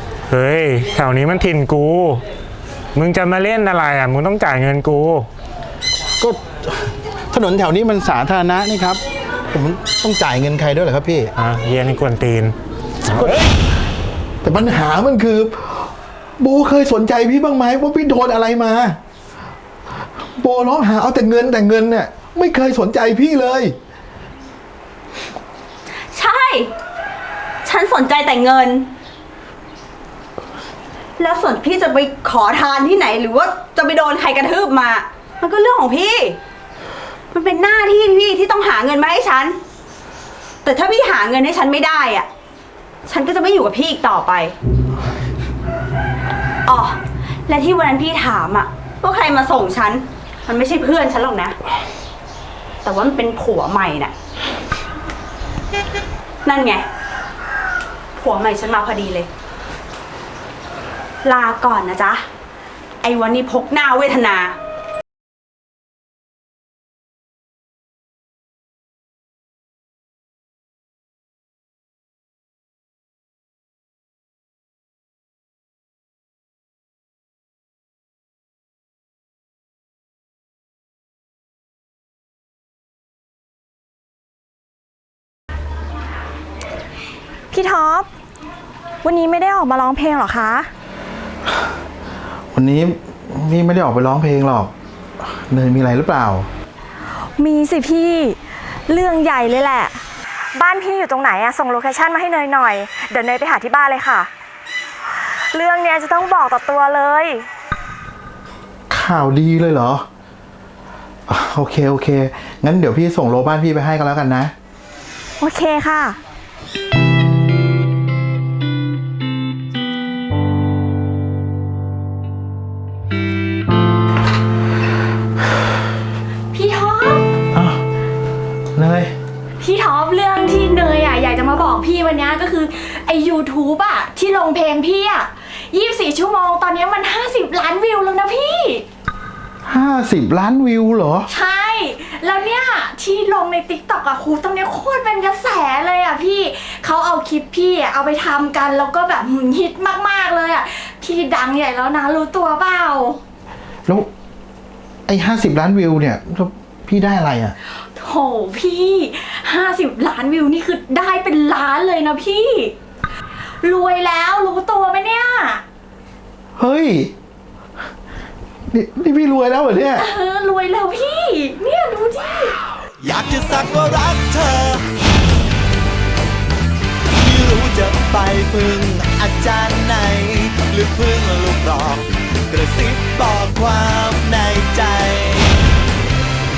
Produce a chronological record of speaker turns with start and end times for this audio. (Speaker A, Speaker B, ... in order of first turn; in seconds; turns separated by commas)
Speaker A: 0.3-2.2, Speaker A: 2.9-5.3, Speaker B: 6.2-11.3, Speaker A: 11.4-12.5, Speaker B: 13.1-13.5, Speaker B: 14.4-19.0, Speaker B: 20.4-23.7, Speaker C: 26.1-26.7, Speaker C: 27.6-28.9, Speaker C: 31.2-36.4, Speaker C: 37.3-39.6, Speaker C: 40.6-42.3, Speaker C: 43.1-44.5, Speaker C: 46.6-51.6, Speaker C: 52.8-54.1, Speaker C: 56.4-56.8, Speaker C: 58.1-59.3, Speaker C: 61.2-62.2, Speaker C: 63.0-64.6, Speaker D: 87.5-88.1, Speaker D: 89.0-90.7, Speaker B: 92.5-94.7, Speaker B: 95.2-96.5, Speaker D: 97.4-104.3, Speaker D: 105.1-107.5, Speaker B: 108.9-110.0, Speaker B: 111.3-114.5, Speaker D: 115.4-116.2, Speaker D: 126.5-127.2, Speaker B: 127.5-127.8, Speaker B: 128.7-129.1, Speaker D: 129.6-138.8, Speaker B: 139.6-141.3, Speaker D: 141.3-153.2, Speaker B: 155.1-157.6, Speaker D: 157.9-162.7, Speaker D: 163.6-165.6, Speaker B: 166.6-167.1, Speaker B: 168.7-170.1, Speaker D: 169.9-172.6, Speaker E: 173.0-174.8, Speaker E: 177.2-185.7